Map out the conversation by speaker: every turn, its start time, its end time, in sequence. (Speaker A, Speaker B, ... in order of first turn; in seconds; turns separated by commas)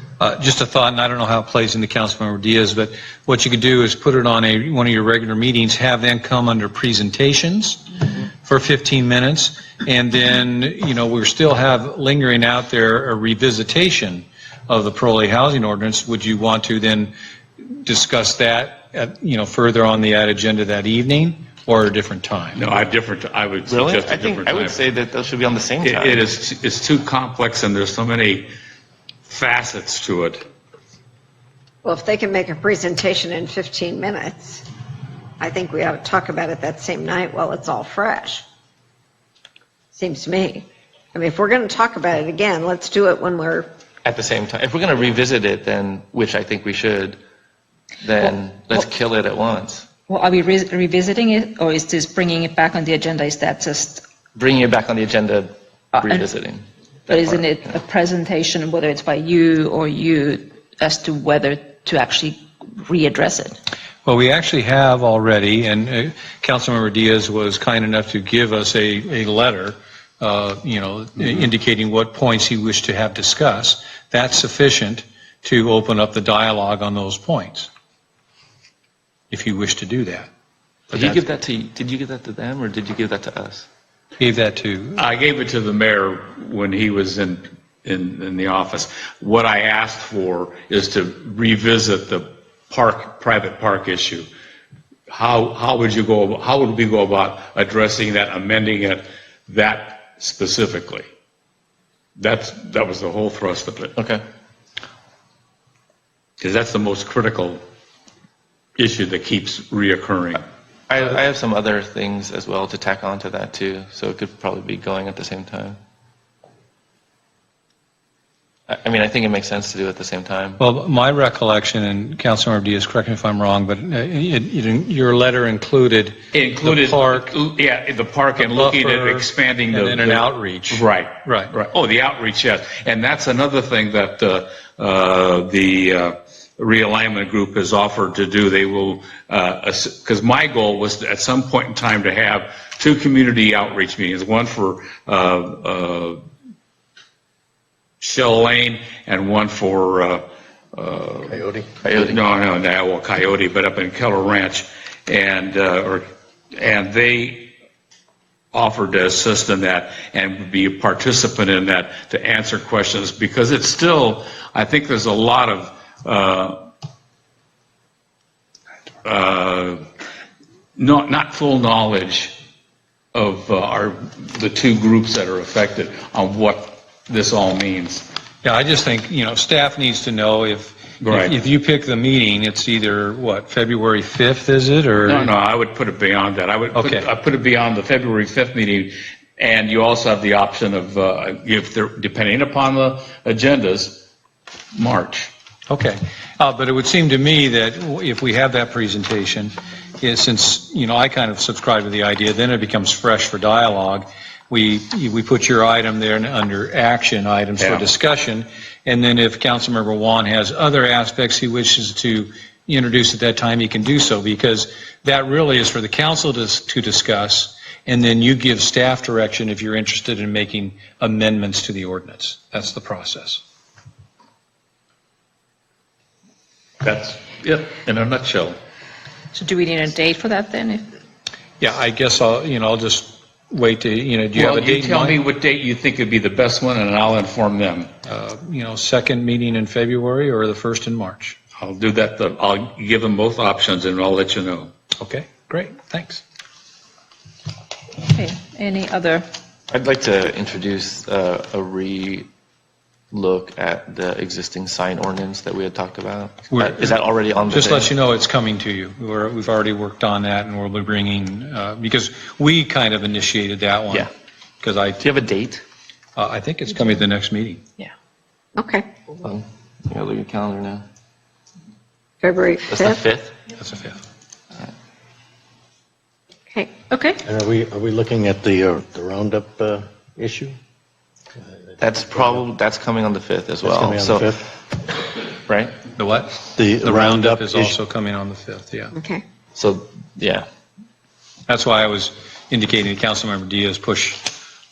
Speaker A: 0.2-7.8, Speaker A: 8.4-17.1, Speaker A: 17.7-22.6, Speaker B: 22.6-24.9, Speaker C: 23.7-26.3, Speaker B: 25.8-28.5, Speaker B: 29.3-30.4, Speaker D: 31.8-34.6, Speaker D: 35.4-38.4, Speaker D: 39.9-43.7, Speaker C: 44.0-47.2, Speaker C: 48.0-49.9, Speaker E: 50.1-54.0, Speaker C: 54.4-57.7, Speaker E: 55.9-56.3, Speaker E: 57.1-63.6, Speaker A: 64.0-77.7, Speaker A: 79.3-80.3, Speaker A: 80.9-81.2, Speaker C: 80.9-83.7, Speaker A: 84.2-85.0, Speaker B: 85.0-94.3, Speaker B: 95.1-101.1, Speaker B: 102.2-103.9, Speaker C: 104.0-104.2, Speaker B: 106.4-107.6, Speaker B: 108.8-110.4, Speaker C: 110.9-115.8, Speaker C: 118.7-120.6, Speaker A: 120.6-127.3, Speaker B: 126.3-146.2, Speaker A: 128.4-131.5, Speaker B: 148.0-157.5, Speaker C: 151.8-152.2, Speaker B: 158.5-166.6, Speaker B: 169.0-169.9, Speaker B: 170.8-172.4, Speaker B: 173.1-178.1, Speaker A: 178.4-185.3, Speaker B: 181.0-181.3, Speaker B: 185.1-194.1, Speaker A: 186.8-187.1, Speaker B: 194.8-195.3, Speaker A: 195.7-223.4, Speaker B: 207.6-207.9, Speaker B: 226.8-228.6, Speaker E: 229.3-230.9, Speaker A: 231.6-235.2, Speaker B: 234.4-237.9, Speaker A: 238.1-241.4, Speaker B: 241.6-244.7, Speaker A: 245.0-246.2, Speaker E: 248.0-249.3, Speaker C: 249.7-252.3, Speaker C: 253.1-258.0, Speaker A: 256.5-257.0, Speaker A: 257.5-264.1, Speaker A: 264.6-265.0, Speaker C: 265.0-265.6, Speaker A: 266.2-267.6, Speaker D: 268.6-268.9, Speaker C: 269.1-270.9, Speaker D: 272.2-273.0, Speaker C: 272.7-273.4, Speaker A: 273.6-274.0, Speaker E: 276.9-277.2, Speaker F: 277.3-280.6, Speaker C: 281.8-284.4, Speaker F: 283.7-284.3, Speaker C: 285.5-285.8, Speaker A: 286.0-288.9, Speaker F: 286.6-287.7, Speaker D: 289.0-289.2, Speaker C: 289.6-290.5, Speaker A: 291.5-294.3